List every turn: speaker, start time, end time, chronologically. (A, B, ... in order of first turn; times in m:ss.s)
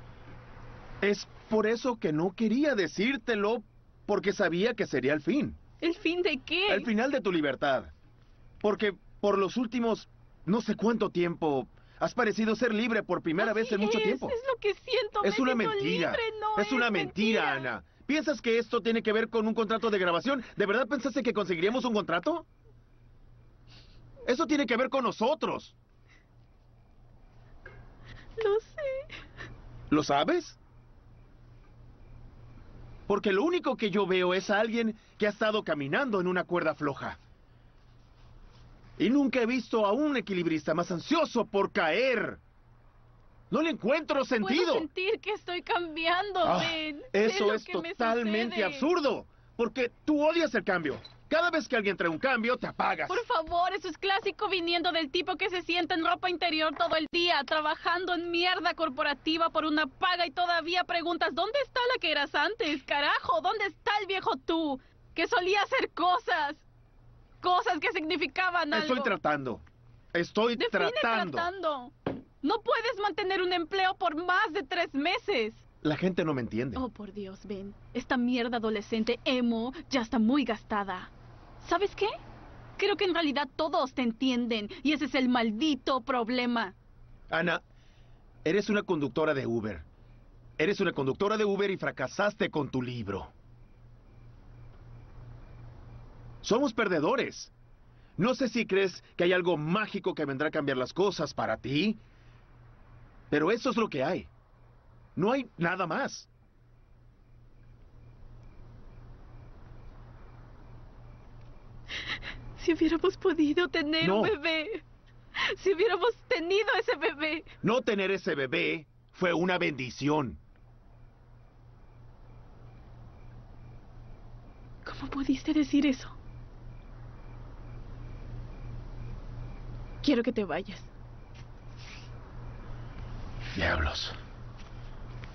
0:01.0-0:05.6 A
0:05.8-0:06.9 B
0:06.7-0:07.9 A
0:08.6-0:14.4 A
0:13.4-0:17.7 B
0:15.2-0:22.5 A
0:24.3-0:25.8 A
0:28.4-0:29.0 B
0:29.9-0:30.6 A
0:33.1-0:37.2 A
0:39.0-0:42.4 A
0:43.5-0:44.9 A
0:44.4-0:48.9 B
0:46.4-0:53.2 A
0:53.1-1:06.6 B
1:07.4-1:09.2 B
1:08.7-1:11.5 A
1:10.6-1:15.6 B
1:15.8-1:16.8 A
1:16.8-1:22.2 B
1:22.8-1:26.8 B
1:27.3-1:27.6 A
1:28.4-1:29.9 A
1:30.6-1:33.3 A
1:36.4-1:37.5 A
1:38.2-1:42.0 A
1:43.3-1:44.3 A
1:45.2-1:46.3 A
1:52.6-1:54.8 B
1:54.0-1:54.4 A
1:55.4-1:57.5 B
1:57.6-2:00.4 A
2:04.8-2:06.2 B
2:10.0-2:10.9 B
2:13.5-2:14.2 A